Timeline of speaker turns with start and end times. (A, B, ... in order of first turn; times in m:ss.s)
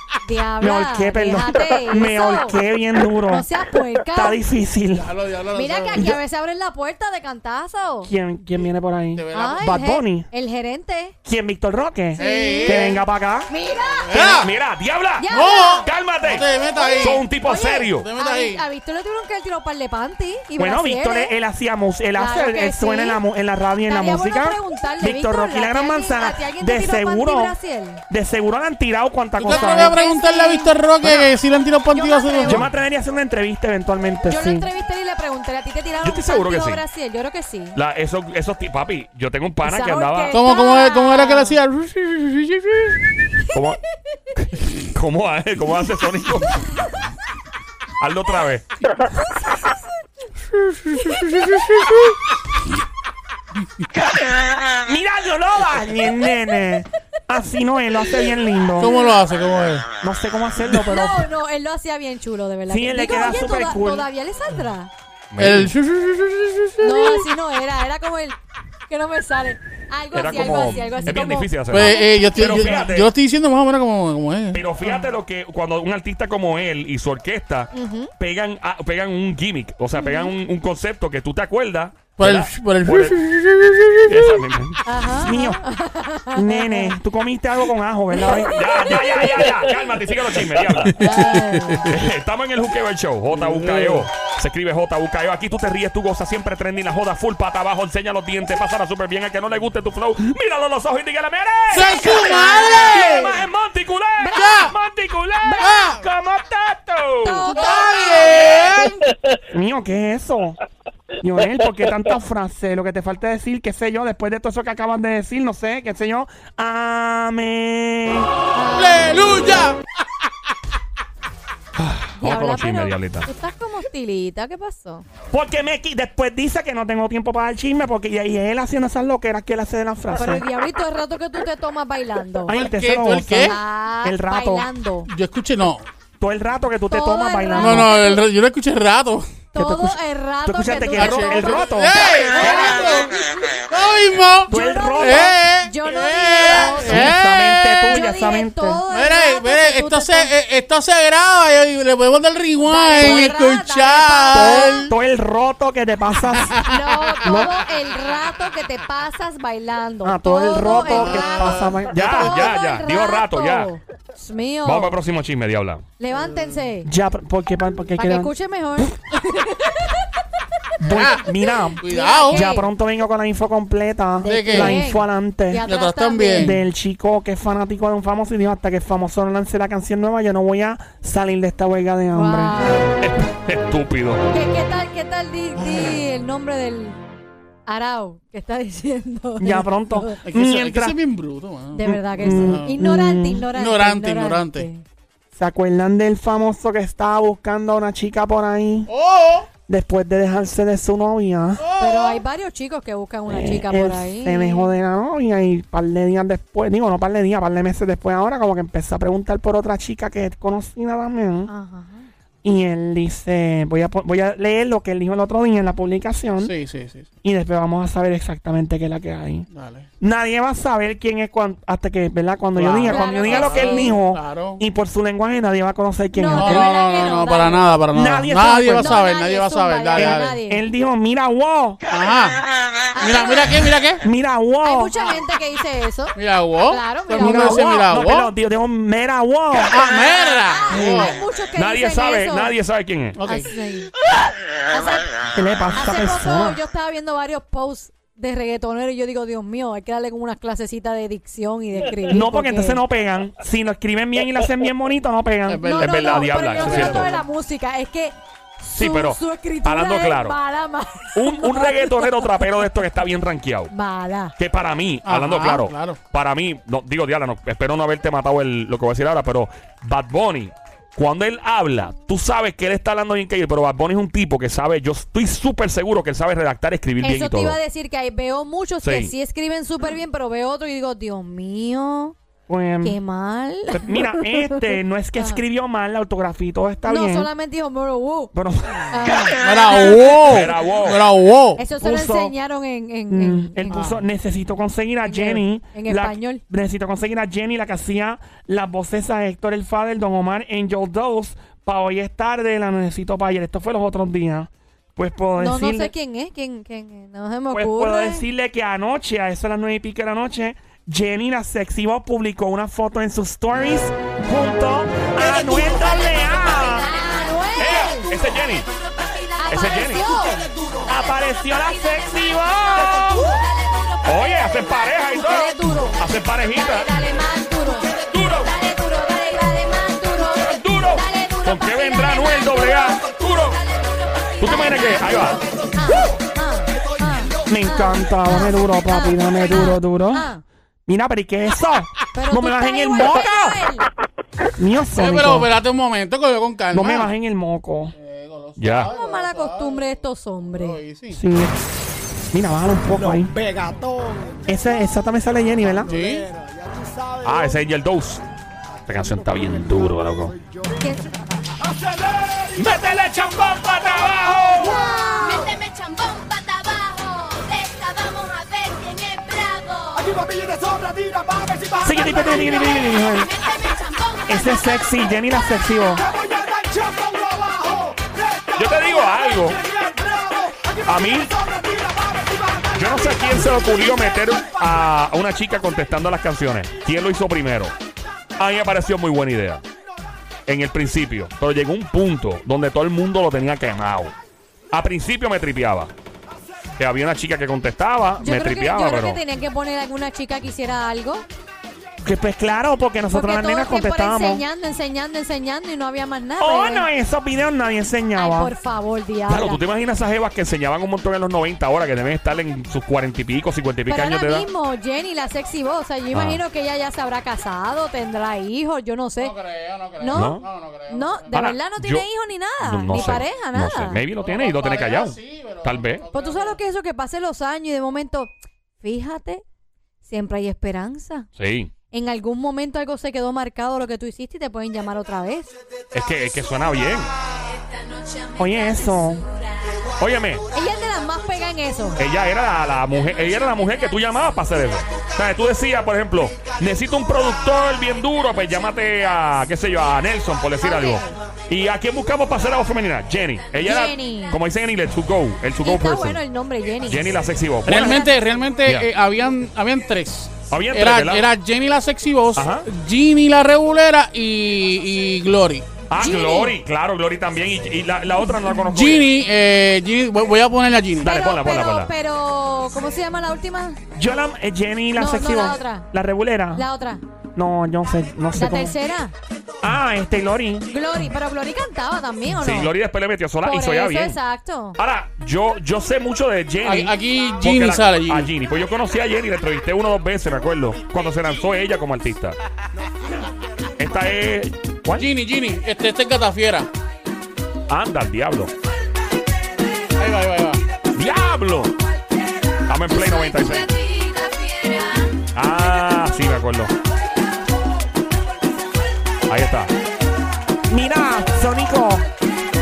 0:00.2-0:02.6 A
0:00.6-0:03.5 B
0:03.3-0:04.4 A
0:04.1-0:05.1 B
0:05.0-0:06.2 C
0:05.5-0:08.1 A
0:08.0-0:10.3 B
0:09.1-0:09.6 C
0:09.3-0:11.1 A
0:11.2-0:13.5 B
0:12.1-0:12.9 A
0:12.2-0:13.0 C
0:13.5-0:14.1 A
0:14.0-0:14.5 C
0:14.1-0:15.3 D
0:15.2-0:15.9 A
0:15.3-0:17.2 C
0:15.8-0:16.5 D
0:16.7-0:21.3 A
0:17.0-0:18.1 D
0:17.9-0:18.6 C
0:20.6-0:27.5 B
0:22.2-0:23.2 A
0:23.9-0:28.0 A
0:28.1-0:30.0 B
0:29.4-0:32.7 C
0:29.5-0:30.8 A
0:31.0-0:31.3 D
0:31.9-0:32.6 A
0:32.5-0:34.7 B
0:34.3-0:37.8 A
0:36.0-0:36.8 D
0:37.7-0:40.3 D
0:39.6-0:41.6 A
0:40.3-0:43.0 C
0:43.5-0:43.8 D
0:44.4-0:46.6 D
0:48.0-0:48.7 D
0:50.6-0:52.1 C
0:54.7-0:59.0 B
0:58.8-0:59.8 C
1:00.0-1:01.3 B
1:00.8-1:04.9 A
1:02.7-1:04.1 B
1:05.3-1:05.7 D
1:05.4-1:07.3 C
1:06.8-1:08.4 A
1:08.9-1:12.4 A
1:10.1-1:13.1 D
1:11.0-1:14.6 C
1:14.5-1:23.2 D
1:17.7-1:18.1 A
1:20.0-1:20.3 A
1:22.2-1:24.4 C
1:24.1-1:24.8 D
1:24.8-1:26.9 A
1:25.2-1:25.6 B
1:26.3-1:29.3 B
1:28.2-1:29.8 A
1:28.4-1:30.9 D
1:30.8-1:32.0 C
1:31.0-1:31.9 A
1:31.9-1:47.7 D
1:33.3-1:34.1 C
1:41.7-1:43.3 C
1:42.1-1:43.1 A
1:44.2-1:44.7 A
1:44.3-1:44.7 C
1:45.4-1:45.8 A
1:45.6-1:46.0 C
1:47.2-1:48.6 A
1:47.5-1:49.0 C
1:49.5-1:50.6 B
1:51.2-1:58.3 B
1:58.5-1:59.1 A
1:58.7-1:59.8 C
2:01.8-2:03.3 D
2:02.2-2:05.0 A
2:05.3-2:10.4 B
2:10.2-2:12.6 A
2:12.4-2:14.7 B
2:12.5-2:13.6 C
2:13.4-2:15.1 A
2:15.1-2:15.8 C
2:16.2-2:17.9 B
2:16.9-2:18.2 A
2:17.6-2:19.3 C
2:19.5-2:21.6 A
2:19.6-2:22.5 B
2:20.9-2:28.0 C
2:22.4-2:22.8 A
2:24.5-2:25.4 B
2:24.5-2:27.1 A
2:26.6-2:28.8 B
2:27.9-2:30.3 A
2:28.9-2:34.9 C
2:32.6-2:34.9 A
2:33.0-2:33.3 B
2:34.3-2:36.6 B
2:36.5-2:36.8 C
2:36.6-2:45.0 A
2:37.2-2:37.6 B
2:40.0-2:42.4 B
2:40.8-2:41.8 C
2:41.9-2:43.7 D
2:44.6-2:45.8 D
2:46.0-2:46.9 A
2:46.1-2:46.5 C
2:46.8-2:48.9 B
2:48.0-2:50.2 A
2:50.8-2:55.6 B
2:50.9-2:51.2 C
2:51.8-2:52.4 C
2:51.8-2:52.7 A
2:54.2-2:56.6 A
2:54.2-2:54.8 C
2:55.6-2:56.6 C
2:56.4-3:02.6 B
3:02.1-3:02.9 A
3:03.0-3:04.2 D
3:04.3-3:07.0 A
3:05.6-3:06.0 C
3:07.7-3:10.2 A
3:09.4-3:11.0 B
3:10.2-3:12.7 C
3:11.7-3:14.8 A
3:11.8-3:13.5 B
3:13.5-3:14.7 C
3:15.3-3:18.9 B
3:18.9-3:19.5 C
3:19.7-3:21.6 B
3:21.6-3:22.2 C
3:21.8-3:24.7 A
3:23.3-3:31.5 B
3:31.5-3:32.1 A
3:32.4-3:36.5 B
3:36.4-3:37.1 C
3:37.2-3:39.5 B
3:39.5-3:39.9 C
3:40.0-3:46.7 B
3:42.6-3:44.6 C
3:42.8-3:44.0 A
3:46.1-3:47.7 A
3:46.3-3:50.4 C
3:47.9-3:49.0 B
3:48.8-3:50.7 A
3:49.9-3:51.8 B
3:51.9-3:52.4 C
3:52.9-3:53.5 A
3:53.0-3:54.0 C
3:54.0-3:55.2 B
3:54.6-3:57.7 A
3:56.1-3:58.3 C
3:57.2-3:59.9 B
3:59.6-4:01.2 C
4:00.5-4:02.5 A
4:01.5-4:03.2 D
4:03.2-4:03.5 C
4:03.2-4:03.9 A
4:04.7-4:05.1 A
4:05.3-4:06.6 B
4:05.7-4:12.8 A
4:12.1-4:15.7 B
4:15.5-4:17.2 C
4:15.6-4:22.4 A
4:15.8-4:17.1 D
4:18.7-4:20.4 D
4:21.1-4:23.7 D
4:23.7-4:24.3 A
4:24.4-4:37.6 D
4:25.0-4:26.0 C
4:37.0-4:42.1 A
4:38.8-4:39.1 D
4:42.5-4:43.0 B
4:42.8-4:45.4 A
4:43.7-4:47.3 B
4:46.8-4:48.3 A
4:48.3-4:49.1 B
4:48.9-4:49.9 A
4:49.4-4:51.6 C
4:50.3-4:51.0 D
4:51.6-4:53.7 A
4:51.8-4:52.3 B
4:53.1-5:05.9 B
4:53.7-4:54.0 C
4:55.0-4:56.4 A
5:05.4-5:08.2 A
5:07.5-5:16.9 B
5:15.2-5:16.5 C
5:15.6-5:18.1 A
5:17.6-5:18.7 D
5:19.0-5:20.5 A
5:19.5-5:20.1 D
5:20.8-5:23.2 B
5:22.3-5:24.6 A
5:24.0-5:26.9 D
5:25.1-5:26.0 A
5:26.5-5:40.4 A
5:28.0-5:28.5 D
5:30.4-5:33.6 D
5:34.4-5:35.4 D
5:37.5-5:40.3 B
5:40.8-5:43.6 B
5:42.1-5:43.9 A
5:44.6-5:45.5 B
5:45.0-5:47.1 C
5:46.7-5:47.9 B
5:48.0-5:50.0 C
5:48.6-5:48.9 D
5:48.9-5:50.8 A
5:50.5-5:51.2 C
5:51.1-5:51.6 B
5:52.3-5:53.3 B
5:54.4-5:55.9 B
5:55.8-5:56.3 C
5:57.2-5:58.2 D
5:58.9-6:00.4 D
6:00.8-6:01.1 A
6:02.6-6:04.8 D
6:04.6-6:10.0 A
6:11.8-6:13.3 B
6:13.5-6:14.3 A
6:14.2-6:16.0 B
6:18.6-6:19.6 D
6:20.8-6:21.7 D
6:22.7-6:27.7 D
6:28.4-6:29.6 D
6:30.5-6:34.1 D
6:34.7-6:35.9 D
6:36.8-6:39.2 D
6:38.2-6:41.2 A
6:42.0-6:44.4 B
6:43.1-6:46.9 A
6:46.4-6:48.5 B
6:48.2-6:49.6 A
6:49.3-6:54.4 D
6:53.9-6:59.3 A
6:56.1-6:56.4 D
6:59.2-7:01.3 C
7:00.0-7:04.0 A
7:00.1-7:00.4 D
7:01.3-7:02.0 D
7:02.6-7:06.0 D
7:02.9-7:03.2 C
7:04.2-7:06.6 C
7:06.1-7:09.4 A
7:10.0-7:11.3 A
7:11.4-7:11.7 D
7:11.9-7:15.5 A
7:15.9-7:17.1 D
7:18.4-7:19.3 B
7:20.0-7:20.4 D
7:20.5-7:22.0 A
7:22.0-7:36.2 D
7:30.6-7:31.2 A
7:33.6-7:34.4 A
7:35.6-7:37.2 A
7:36.8-7:38.1 D
7:37.6-7:45.7 C
7:37.7-7:38.1 A
7:40.5-7:41.3 D
7:42.3-7:42.7 D
7:45.9-7:49.0 D
7:46.0-7:46.5 A
7:48.6-7:51.2 C
7:51.0-7:53.8 A
7:51.0-7:51.9 D
7:53.9-7:56.6 B
7:55.0-7:55.9 A
7:56.5-7:57.0 A
7:57.3-7:58.7 B
7:58.4-7:59.1 A
7:59.6-8:00.7 B
8:00.7-8:02.7 A
8:02.4-8:04.2 D
8:03.4-8:04.8 A
8:04.8-8:12.4 D
8:06.6-8:08.3 C
8:13.8-8:15.1 D
8:15.0-8:16.7 C
8:17.7-8:18.5 D
8:20.0-8:20.6 C
8:20.9-8:21.8 D
8:22.6-8:23.7 D
8:23.2-8:25.0 A
8:25.3-8:26.7 D
8:29.3-8:29.7 D
8:30.7-8:32.1 B